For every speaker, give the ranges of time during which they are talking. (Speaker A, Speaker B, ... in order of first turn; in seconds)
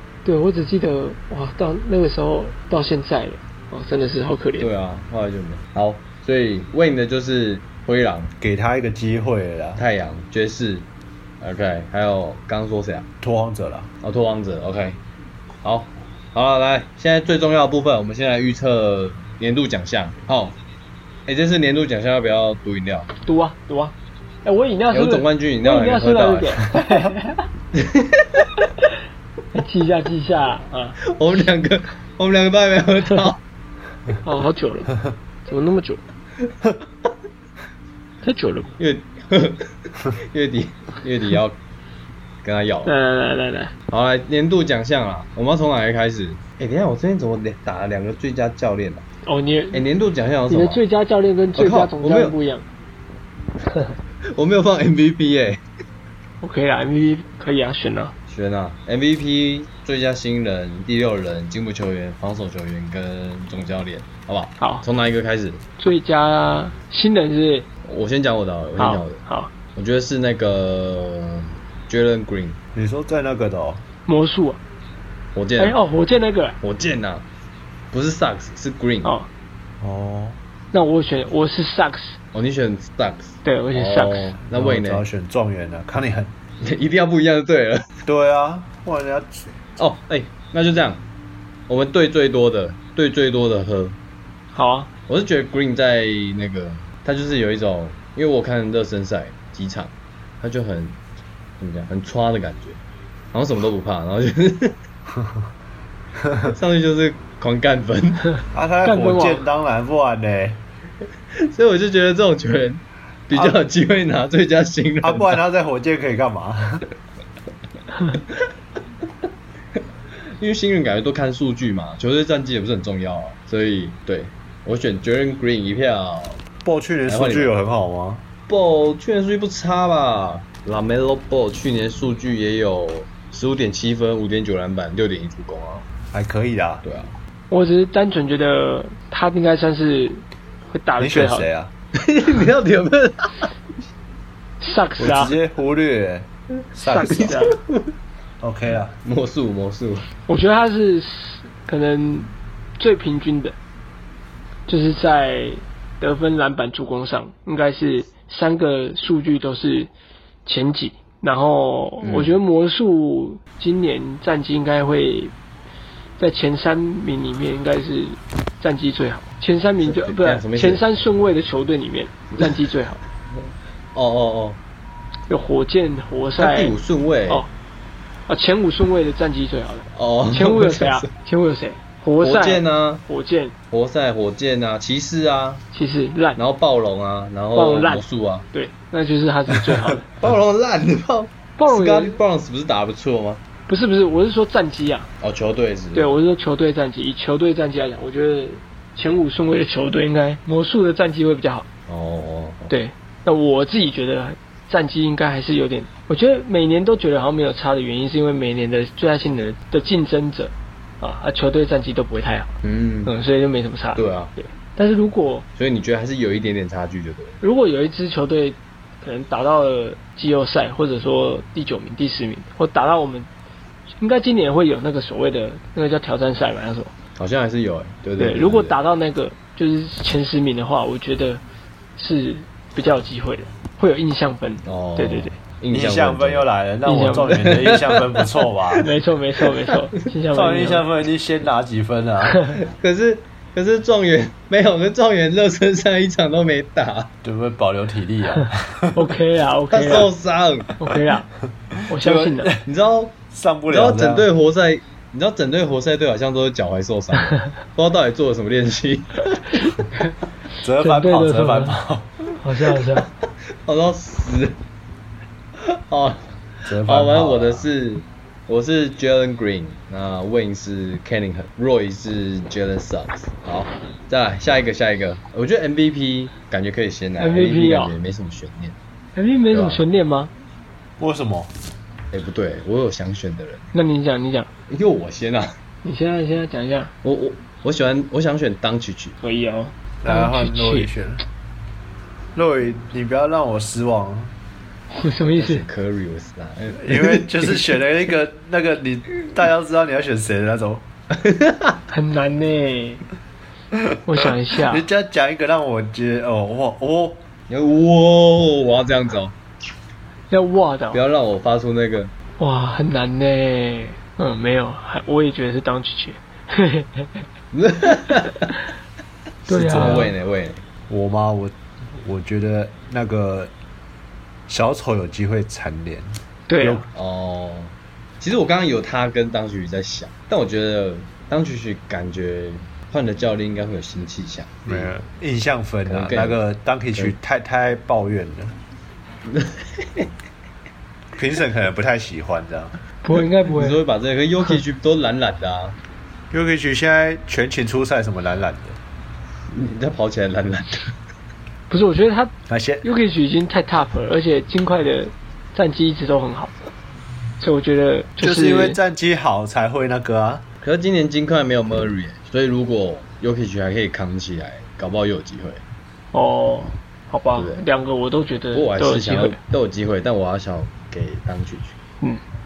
Speaker A: 0.2-4.7, 23.2-27.4, 29.5-31.0, 34.2-34.9, 35.5-36.0, 38.2-38.7, 42.8-43.7, 49.2-49.9, 50.5-52.6, 56.4-58.1, 64.6-64.8, 65.8-67.7, 68.8-69.5, 74.0-74.6, 75.6-76.6, 79.0-79.3, 80.7-82.2, 83.4-84.3, 94.5-94.9, 108.8-109.5, 137.5-141.5, 144.6-145.3, 146.8-147.6, 150.3-153.6, 154.7-159.9, 160.4-165.3, 166.2-173.0, 175.3-176.7, 178.3-183.5, 185.7-186.4, 187.5-190.1, 191.6-192.2, 193.7-195.1, 195.9-201.7, 202.7-215.4, 217.4-223.3, 224.0-226.9, 228.2-231.4, 231.9-235.4, 236.8-237.3, 238.8-240.8, 248.4-250.1, 250.8-251.3, 251.9-252.5, 260.8-261.8, 262.4-263.1, 277.2-277.9, 279.1-280.3, 283.7-284.5, 285.8-286.9, 289.2-290.9, 294.9-295.6, 301.9-303.0, 304.1-304.9, 310.3-311.0, 312.4-317.2, 319.5-320.1, 326.5-326.8, 343.0-343.8, 351.7-356.5, 357.4-358.8, 366.1-369.4
Speaker B: 4.6-8.3, 9.8-10.9, 11.4-13.1, 14.0-15.0, 15.6-20.6, 21.3-23.1, 24.9-26.6, 27.7-28.5, 31.1-33.4, 38.8-41.6, 42.4-42.9, 43.9-49.0, 49.7-50.8, 51.5-52.3, 54.3-55.6, 58.3-65.6, 67.8-69.2, 69.7-72.6, 75.3-75.8, 76.6-77.3, 77.9-79.1, 82.3-85.0, 86.6-87.9, 89.8-91.0, 91.7-94.0, 95.1-101.0, 101.6-102.8, 103.3-104.8, 106.5-108.3, 111.4-115.4, 120.4-126.4, 127.1-127.5, 128.5-135.9, 136.8-137.1, 142.0-143.5, 147.2-147.9, 149.0-150.1, 162.0-162.4, 169.8-170.8, 173.3-174.6, 176.4-177.4, 179.9-181.1, 182.2-183.0, 183.7-185.6, 186.4-188.4, 190.2-193.4, 195.2-196.1, 201.9-202.7, 212.6-213.1, 213.9-214.3, 215.6-217.4, 227.2-228.8, 234.6-236.5, 237.3-238.8, 242.7-247.1, 249.7-250.7, 252.6-259.7, 263.6-264.6, 265.6-278.8, 279.5-279.8, 282.1-283.7, 284.7-285.5, 287.0-289.1, 295.4-297.8, 301.1-301.8, 307.5-309.3, 310.9-312.1, 317.5-318.5, 319.7-320.6, 326.9-334.9, 335.9-336.4, 339.3-340.1, 343.5-345.8, 349.5-350.9, 360.6-365.6, 367.3-367.6, 368.5-371.8
Speaker C: 8.4-9.8, 13.2-13.9, 72.7-73.8, 79.8-80.4, 84.5-86.3, 88.0-89.5, 106.3-106.5, 108.5-110.6, 115.0-116.9, 126.6-128.2, 136.1-136.8, 141.0-141.7, 145.0-147.4, 148.4-148.9, 235.7-238.9, 240.3-242.5, 247.2-249.0, 251.8-252.7, 253.3-254.3, 260.6-262.1, 266.6-267.7, 281.0-281.5, 290.0-291.2, 292.3-294.3, 296.7-300.8, 304.7-307.2, 319.5-320.1, 320.9-323.5, 324.5-326.9, 334.6-338.6, 341.1-342.8, 346.3-348.8, 352.5-352.8, 358.2-360.4